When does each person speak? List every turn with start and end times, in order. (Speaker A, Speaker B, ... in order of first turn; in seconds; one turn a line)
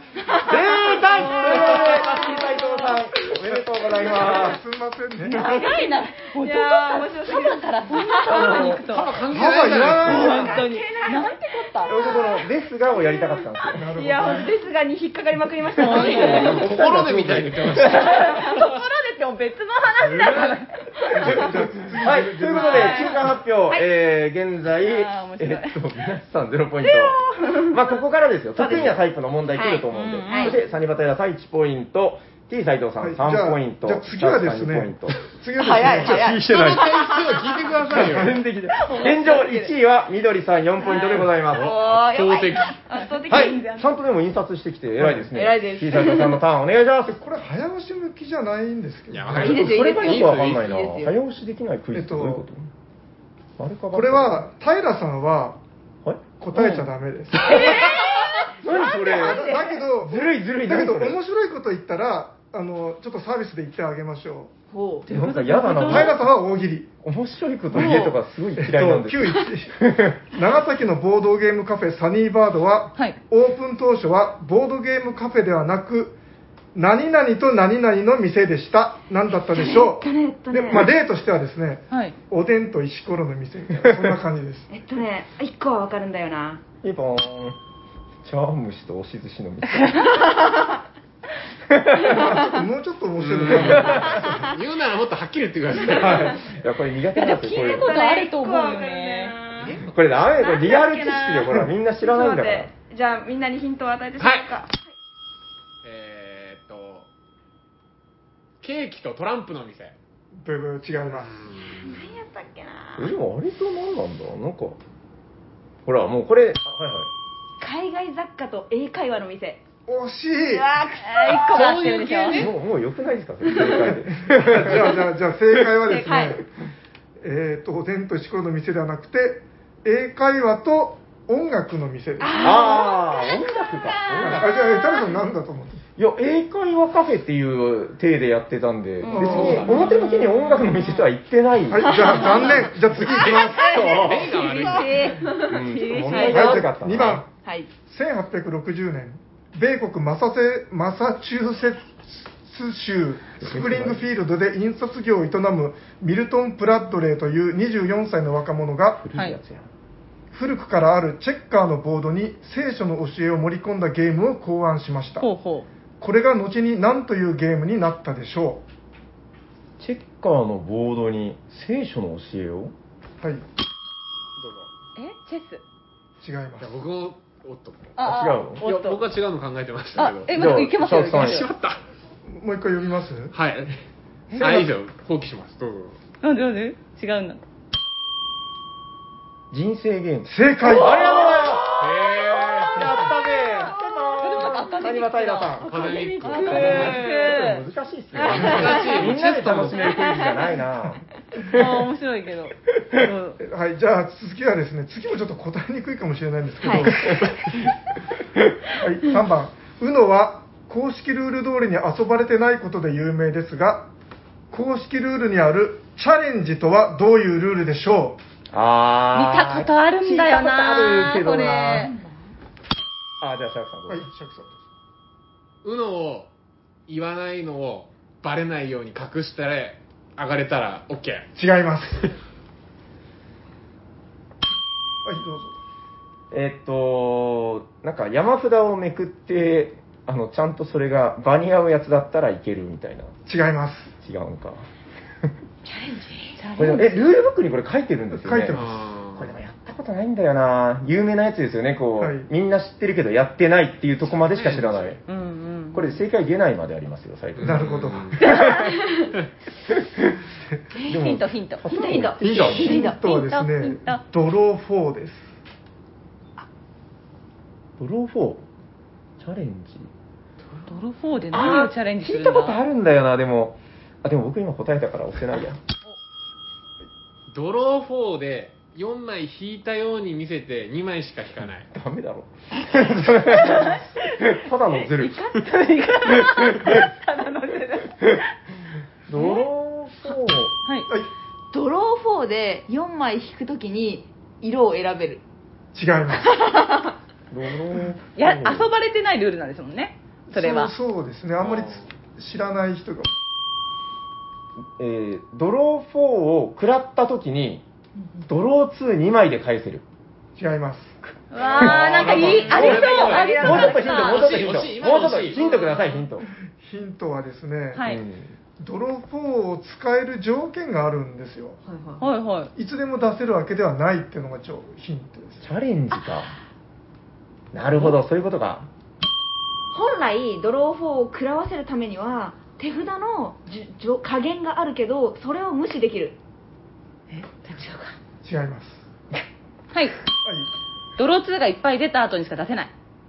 Speaker A: 0.3-2.6
Speaker B: 0.5-4.6
Speaker C: 1.2-2.6
Speaker D: 3.3-5.5
Speaker C: 5.2-9.2
Speaker A: 5.5-5.8
Speaker A: 6.4-8.8
Speaker B: 8.3-8.8
Speaker E: 8.7-10.4
Speaker D: 9.3-10.6
Speaker A: 9.8-13.3
Speaker C: 10.0-12.0
Speaker B: 11.9-13.9
Speaker D: 13.7-14.6
Speaker A: 13.9-16.5
Speaker C: 15.8-16.7
Speaker B: 15.8-18.4
Speaker E: 15.9-18.4
Speaker C: 17.8-21.4
Speaker E: 20.0-20.6
Speaker D: 21.1-23.1
Speaker B: 21.2-35.2
Speaker C: 22.6-23.2
Speaker A: 22.6-23.2
Speaker C: 24.7-25.8
Speaker A: 26.8-27.8
Speaker A: 28.6-29.0
Speaker A: 29.5-30.6
Speaker C: 29.9-30.6
Speaker D: 33.0-36.4
Speaker A: 35.5-37.8
Speaker B: 36.0-36.9
Speaker E: 36.3-38.4
Speaker B: 37.9-41.8
Speaker C: 38.7-39.7
Speaker A: 40.8-43.6
Speaker C: 40.9-41.2
Speaker E: 41.3-42.8
Speaker C: 42.9-43.9
Speaker B: 43.3-47.2
Speaker D: 45.0-45.3
Speaker A: 45.3-46.4
Speaker D: 47.1-49.6
Speaker E: 49.1-50.7
Speaker B: 49.3-52.7
Speaker A: 49.4-51.2
Speaker D: 51.9-52.4
Speaker B: 53.6-54.5
Speaker D: 53.9-55.6
Speaker D: 56.4-57.8
Speaker C: 56.5-56.9
Speaker A: 57.4-59.9
Speaker B: 57.5-58.0
Speaker B: 58.6-61.2
Speaker D: 58.9-64.5
Speaker A: 64.7-65.1
Speaker C: 65.1-66.2
Speaker B: 65.1-66.2
Speaker D: 65.8-66.9
Speaker B: 67.0-70.2
Speaker D: 67.7-68.0
Speaker C: 67.7-68.2
Speaker D: 68.6-69.8
Speaker D: 70.3-76.2
Speaker D: 76.7-84.7
Speaker A: 79.5-80.9
Speaker C: 81.9-82.2
Speaker A: 84.7-86.6
Speaker B: 86.8-87.6
Speaker B: 88.2-90.2
Speaker C: 89.8-90.1
Speaker B: 91.7-92.4
Speaker D: 92.0-94.5
Speaker E: 93.2-96.5
Speaker B: 93.6-94.3
Speaker B: 95.8-98.0
Speaker C: 97.1-99.3
Speaker A: 97.5-104.9
Speaker E: 99.6-99.9
Speaker B: 99.8-102.7
Speaker E: 104.2-104.5
Speaker E: 105.8-107.1
Speaker E: 108.6-110.0
Speaker D: 110.4-111.4
Speaker E: 111.1-112.1
Speaker A: 111.7-113.1
Speaker B: 113.0-114.8
Speaker B: 115.8-117.1
Speaker A: 117.6-119.6
Speaker D: 119.9-120.7
Speaker A: 120.5-121.5
Speaker C: 121.0-122.5
Speaker E: 121.3-122.5
Speaker B: 122.3-125.1
Speaker A: 123.5-123.7
Speaker D: 123.6-126.4
Speaker A: 125.8-126.4
Speaker D: 127.2-132.8
Speaker A: 132.2-135.0
Speaker B: 132.4-134.5
Speaker D: 134.2-135.8
Speaker B: 136.0-142.5
Speaker D: 139.1-139.8
Speaker A: 139.1-139.6
Speaker E: 139.1-139.9
Speaker C: 139.7-140.9
Speaker D: 141.7-144.0
Speaker A: 141.9-146.6
Speaker E: 143.2-145.2
Speaker B: 143.2-144.8
Speaker B: 145.4-147.2
Speaker D: 146.1-159.1
Speaker A: 147.4-147.7
Speaker B: 153.4-154.0
Speaker B: 159.0-159.7
Speaker D: 160.3-165.3
Speaker C: 165.2-165.7
Speaker D: 166.0-168.6
Speaker B: 169.8-172.7
Speaker E: 174.4-174.7
Speaker C: 175.0-175.6
Speaker D: 176.2-176.8
Speaker E: 176.6-177.9
Speaker C: 178.0-179.0
Speaker B: 178.0-178.7
Speaker E: 178.6-180.4
Speaker C: 180.0-181.5
Speaker B: 180.3-181.5
Speaker E: 181.1-181.8
Speaker D: 182.3-183.4
Speaker E: 183.3-183.8
Speaker C: 184.3-184.6
Speaker E: 184.4-186.0
Speaker C: 186.2-187.4
Speaker B: 189.5-201.7
Speaker D: 190.2-191.2
Speaker C: 190.9-191.6
Speaker E: 191.8-193.1
Speaker C: 194.2-197.6
Speaker E: 195.6-197.1
Speaker A: 198.2-198.9
Speaker E: 198.2-199.9
Speaker A: 199.9-200.4
Speaker C: 201.5-203.4
Speaker D: 203.4-207.4
Speaker A: 206.6-206.9
Speaker D: 208.8-213.9
Speaker D: 214.5-218.2
Speaker B: 218.5-221.9
Speaker C: 219.1-221.9
Speaker A: 221.8-222.1
Speaker B: 223.2-224.1
Speaker D: 223.9-224.6
Speaker E: 225.6-226.3
Speaker E: 226.9-231.3
Speaker D: 231.4-232.1
Speaker D: 235.1-235.6
Speaker B: 236.3-243.1
Speaker D: 243.3-243.9
Speaker B: 244.0-244.7
Speaker A: 245.7-246.3
Speaker C: 246.4-247.0
Speaker B: 246.6-255.0
Speaker D: 248.1-248.7
Speaker E: 248.5-249.3
Speaker D: 252.0-252.3
Speaker E: 254.1-255.0
Speaker C: 255.1-256.0
Speaker B: 255.7-258.8
Speaker E: 257.4-258.2
Speaker D: 257.4-258.2
Speaker C: 258.2-258.7
Speaker A: 258.7-259.1
Speaker B: 259.7-260.2
Speaker C: 260.8-261.7
Speaker B: 260.9-262.8
Speaker A: 261.7-263.0
Speaker D: 262.2-265.4
Speaker C: 262.6-264.0
Speaker B: 267.8-268.5
Speaker B: 269.2-269.9
Speaker C: 270.6-272.6
Speaker B: 271.3-275.6
Speaker E: 277.3-281.7
Speaker B: 281.7-285.2
Speaker C: 283.3-288.4
Speaker B: 286.1-286.9
Speaker B: 289.1-290.5
Speaker C: 289.2-289.4
Speaker A: 291.5-295.2
Speaker D: 295.7-296.4
Speaker A: 296.2-296.9
Speaker B: 297.3-298.7
Speaker C: 298.1-300.7
Speaker D: 300.3-303.1
Speaker E: 301.5-301.8
Speaker B: 304.8-307.6
Speaker B: 308.3-309.9
Speaker D: 310.4-311.2
Speaker C: 311.3-314.4
Speaker E: 311.5-315.4
Speaker B: 311.6-316.3
Speaker A: 311.7-314.3
Speaker A: 315.4-315.6
Speaker D: 316.6-317.9
Speaker C: 317.7-318.0
Speaker B: 317.8-318.3
Speaker D: 318.6-321.6
Speaker A: 321.6-322.1
Speaker C: 322.0-322.5
Speaker D: 322.6-325.4
Speaker B: 325.4-326.3
Speaker B: 327.5-328.7
Speaker A: 329.7-336.2
Speaker C: 337.1-337.9
Speaker D: 338.2-338.8
Speaker D: 340.2-340.5
Speaker C: 341.0-342.7